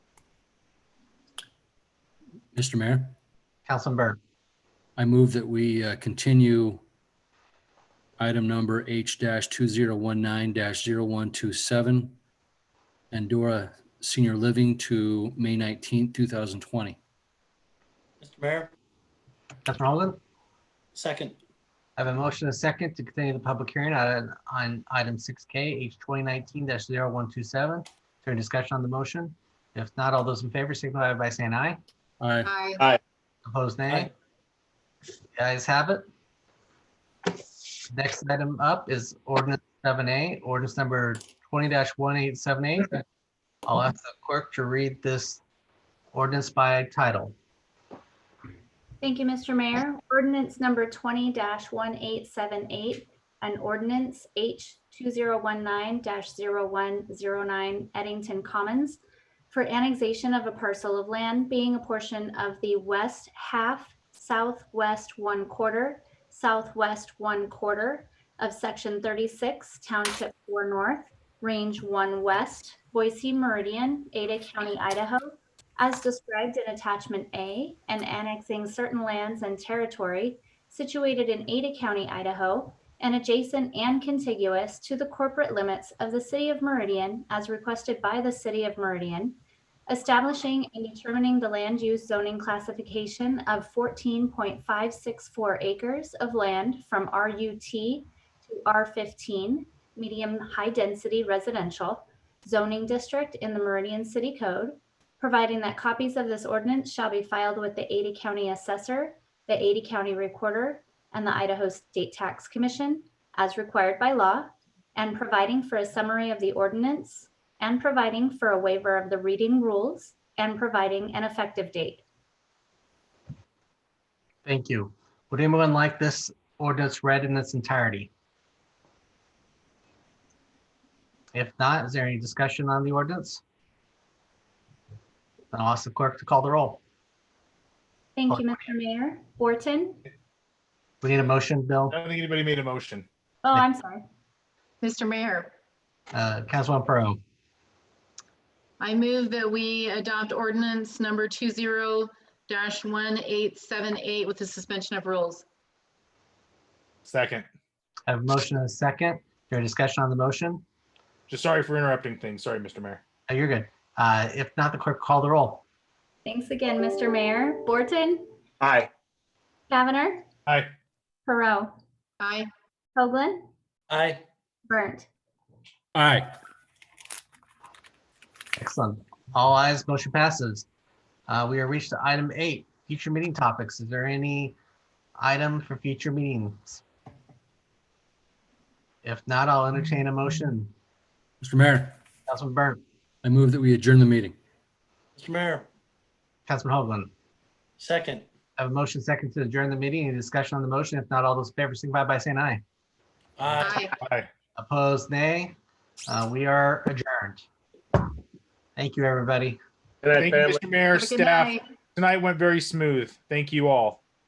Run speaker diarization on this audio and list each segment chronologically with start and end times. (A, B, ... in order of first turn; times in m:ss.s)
0:02.5-0:03.2 A
0:03.7-0:04.2 B
0:05.0-0:06.8 A
0:08.2-0:12.2 A
0:13.1-0:17.0 A
0:18.2-0:18.7 C
0:19.7-0:20.2 B
0:21.0-0:21.4 C
0:22.0-0:31.8 B
0:32.2-0:32.5 A
0:32.4-0:32.9 D
0:33.4-0:34.1 B
0:35.3-0:36.0 B
0:37.9-0:43.0 B
0:43.7-0:45.4 B
0:46.1-0:47.4 B
0:49.0-2:02.0 E
2:04.4-2:08.1 B
2:11.3-2:13.4 B
2:15.5-2:16.8 B
2:18.2-2:20.0 E
2:21.0-2:22.0 B
2:21.9-2:23.1 F
2:23.4-2:24.0 E
2:24.8-2:25.5 D
2:26.1-2:27.2 B
2:28.8-2:35.4 D
2:37.0-2:37.4 F
2:38.1-2:40.6 B
2:41.3-2:43.0 F
2:43.3-2:45.6 B
2:46.2-2:48.3 E
2:48.6-2:48.9 F
2:49.7-2:50.3 E
2:50.5-2:50.7 F
2:51.3-2:51.8 E
2:52.2-2:52.5 D
2:53.0-2:53.5 E
2:53.9-2:54.2 C
2:54.7-2:55.1 E
2:56.0-2:56.4 A
2:58.6-3:00.7 B
3:01.3-3:04.6 B
3:05.2-3:06.8 B
3:09.0-3:10.7 B
3:11.4-3:12.0 A
3:12.3-3:12.8 B
3:13.2-3:14.4 A
3:15.2-3:15.7 C
3:16.5-3:17.1 B
3:17.8-3:18.2 C
3:18.6-3:22.6 B
3:23.6-3:24.0 D
3:24.0-3:24.3 F
3:24.6-3:25.6 B
3:26.1-3:27.5 B
3:28.8-3:29.6 B
3:30.1-3:34.0 F
3:30.9-3:31.7 D